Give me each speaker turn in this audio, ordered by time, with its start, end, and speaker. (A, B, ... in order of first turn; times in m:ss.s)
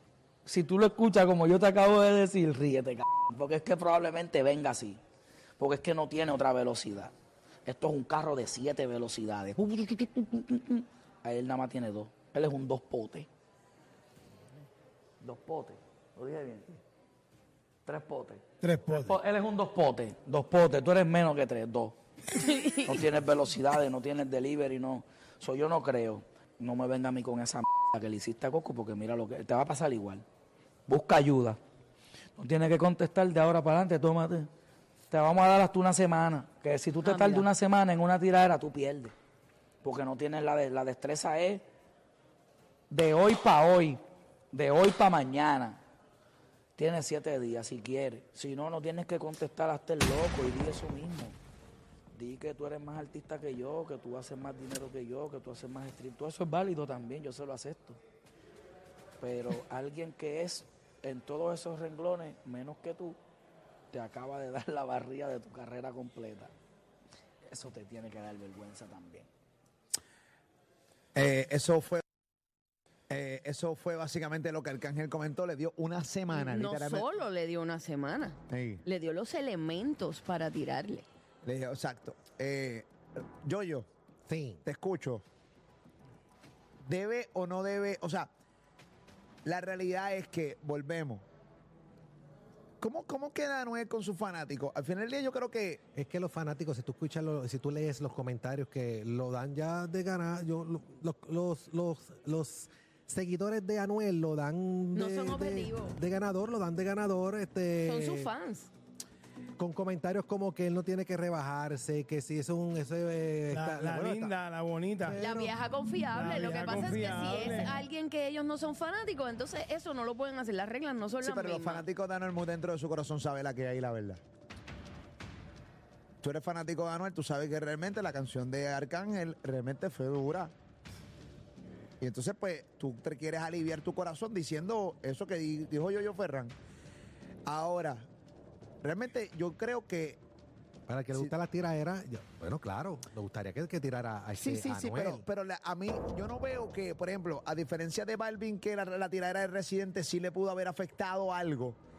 0:00.5-0:05.0 A
0:05.6-0:07.1 A
0:07.6-0:13.3 A
0:15.2-0:16.7 A
0:17.9-0:22.0 A
0:18.6-0:19.2 B
0:22.3-0:23.0 C
0:22.9-0:30.2 A
0:30.9-0:31.6 A
0:32.4-0:34.5 A
0:35.1-0:39.1 A
0:37.0-0:37.5 C
0:39.8-0:41.6 A
0:42.9-0:44.0 A
0:44.5-0:45.8 A
0:46.8-0:51.4 A
0:52.2-0:58.0 A
0:59.2-1:03.2 A
1:03.9-1:06.5 A
1:07.5-1:09.3 A
1:11.2-1:12.0 D
1:13.1-1:17.1 D
1:16.3-1:21.1 C
1:18.5-1:18.8 D
1:21.4-1:22.9 D
1:23.4-1:23.9 D
1:24.3-1:24.6 E
1:24.6-1:25.2 D
1:26.8-1:28.3 D
1:29.4-1:31.2 D
1:32.8-1:35.8 D
1:36.0-1:48.3 E
1:44.9-1:46.0 C
1:47.8-1:48.7 C
1:49.6-1:54.3 E
1:53.5-1:55.2 B
1:55.0-1:55.6 E
1:55.1-2:01.8 C
1:56.1-1:57.8 B
2:01.2-2:04.2 D
2:06.2-2:10.5 D
2:12.0-2:16.6 D
2:17.5-2:18.1 D
2:18.8-2:20.2 D
2:20.9-2:25.2 E
2:24.4-2:31.8 D